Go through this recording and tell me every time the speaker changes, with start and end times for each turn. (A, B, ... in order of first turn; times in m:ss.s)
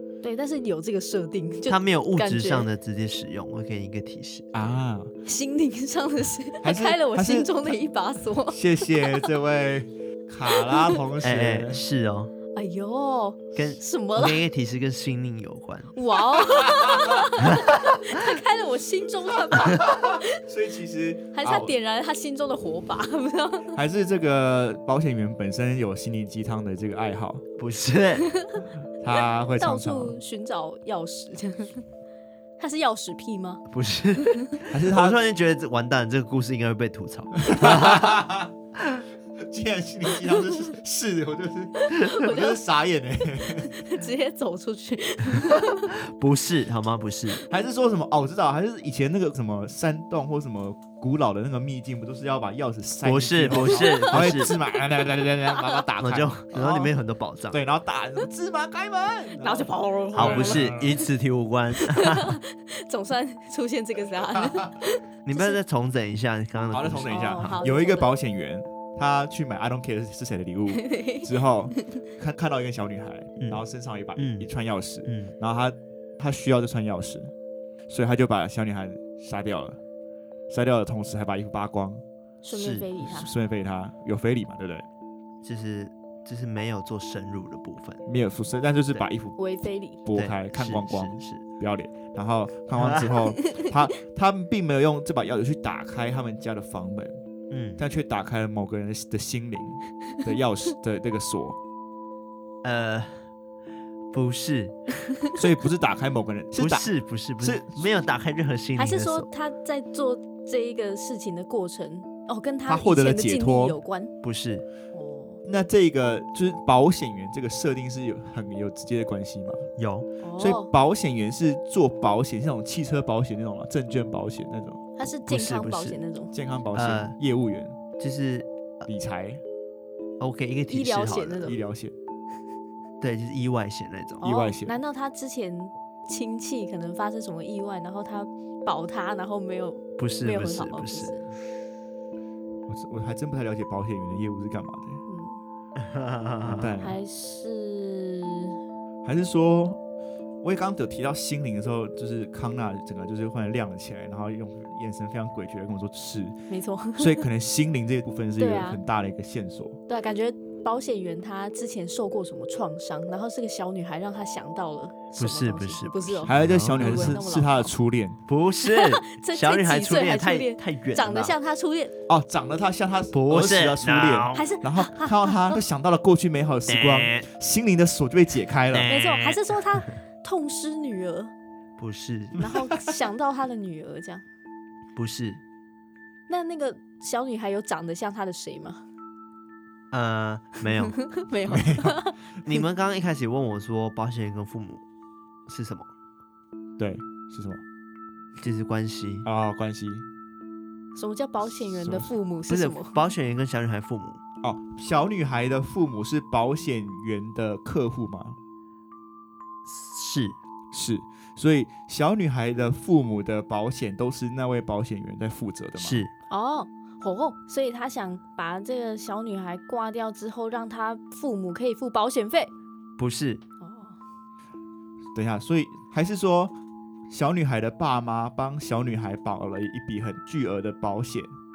0:00.2-0:02.7 A
0:01.7-0:04.5 B
0:04.5-0:05.1 C
0:05.2-0:09.3 A
0:06.6-0:07.7 C
0:08.5-0:11.8 C
0:10.5-0:11.0 A
0:11.2-0:12.3 B
0:12.5-0:14.4 A
0:13.6-0:16.0 B
0:15.9-0:20.4 A
0:16.5-0:17.2 C
0:17.5-0:17.8 B
0:19.5-0:21.7 C
0:21.3-0:23.8 A
0:23.7-0:27.4 C
0:27.6-0:28.3 B
0:28.2-0:28.6 A
0:29.0-0:30.2 C
0:29.5-0:31.8 A
0:32.6-0:33.6 A
0:33.7-0:38.2 B
0:34.7-0:35.2 C
0:37.4-0:38.5 C
0:39.4-0:43.8 C
0:41.8-0:42.6 A
0:43.6-0:45.9 A
0:45.9-0:47.4 B
0:47.5-0:56.9 C
0:53.0-0:54.5 B
0:53.6-0:54.5 A
0:55.5-0:55.8 A
0:56.0-0:57.6 B
0:57.5-1:01.1 C
0:59.4-1:00.8 A
1:00.1-1:02.4 B
1:01.8-1:05.6 A
1:04.3-1:04.7 C
1:05.2-1:07.6 B
1:06.7-1:17.3 C
1:07.1-1:08.1 A
1:10.7-1:11.3 A
1:13.4-1:13.6 B
1:14.2-1:14.5 B
1:15.0-1:15.3 B
1:17.9-1:19.8 C
1:20.5-1:22.0 C
1:22.4-1:23.3 A
1:22.5-1:22.9 B
1:23.0-1:24.8 C
1:25.4-1:28.0 B
1:28.0-1:29.4 C
1:29.4-1:30.0 A
1:30.0-1:37.2 C
1:30.1-1:31.4 B
1:32.8-1:33.2 B
1:37.5-1:37.8 B
1:37.8-1:41.6 C
1:42.6-1:43.2 B
1:44.1-1:44.9 B
1:45.4-1:46.9 C
1:46.6-1:49.3 B
1:47.4-1:47.9 C
1:48.8-1:54.1 A
1:52.7-1:53.8 C
1:54.2-1:54.6 B
1:54.9-1:55.4 A
1:55.4-1:59.7 C
1:59.8-2:00.1 B
2:00.2-2:00.7 A
2:00.4-2:04.8 C
2:05.0-2:06.3 A
2:05.2-2:06.0 B
2:06.3-2:07.8 C
2:06.7-2:07.1 B
2:08.0-2:08.9 B
2:08.9-2:09.4 C
2:10.2-2:11.5 B
2:10.7-2:11.6 A
2:11.4-2:11.9 C
2:13.0-2:14.3 B
2:14.2-2:14.8 C
2:14.2-2:21.2 A
2:20.0-2:21.2 B
2:22.7-2:25.0 C
2:25.1-2:25.4 A
2:25.8-2:26.8 B
2:26.4-2:27.0 C
2:26.8-2:28.6 A
2:29.0-2:29.8 C
2:30.4-2:36.4 C
2:36.5-2:37.2 A
2:37.0-2:39.8 C
2:38.4-2:38.8 A
2:39.9-2:47.7 A
2:45.2-2:47.2 B
2:46.2-2:48.2 C
2:48.3-2:51.3 B
2:48.6-2:51.9 A
2:52.1-2:58.9 C
2:53.1-2:54.4 B
2:54.3-2:55.6 A
2:56.7-2:57.2 B
2:58.7-2:59.5 B
2:58.9-3:01.3 A
3:01.8-3:02.5 B
3:02.4-3:04.2 A
3:02.4-3:02.9 C
3:04.9-3:05.4 B
3:06.3-3:08.8 A
3:09.9-3:11.0 B
3:10.7-3:12.2 A
3:11.5-3:12.0 C
3:12.4-3:14.8 B
3:15.5-3:15.9 B
3:16.8-3:17.6 C
3:18.4-3:19.3 B
3:19.2-3:20.0 C
3:20.9-3:23.0 A
3:21.6-3:22.1 C
3:22.5-3:24.2 B
3:24.4-3:28.4 C
3:29.6-3:30.4 B
3:30.7-3:36.0 C
3:35.8-3:36.1 B
3:36.3-3:42.5 A
3:43.0-3:43.4 B
3:43.6-3:44.0 A
3:45.1-3:46.5 C
3:47.1-3:51.4 C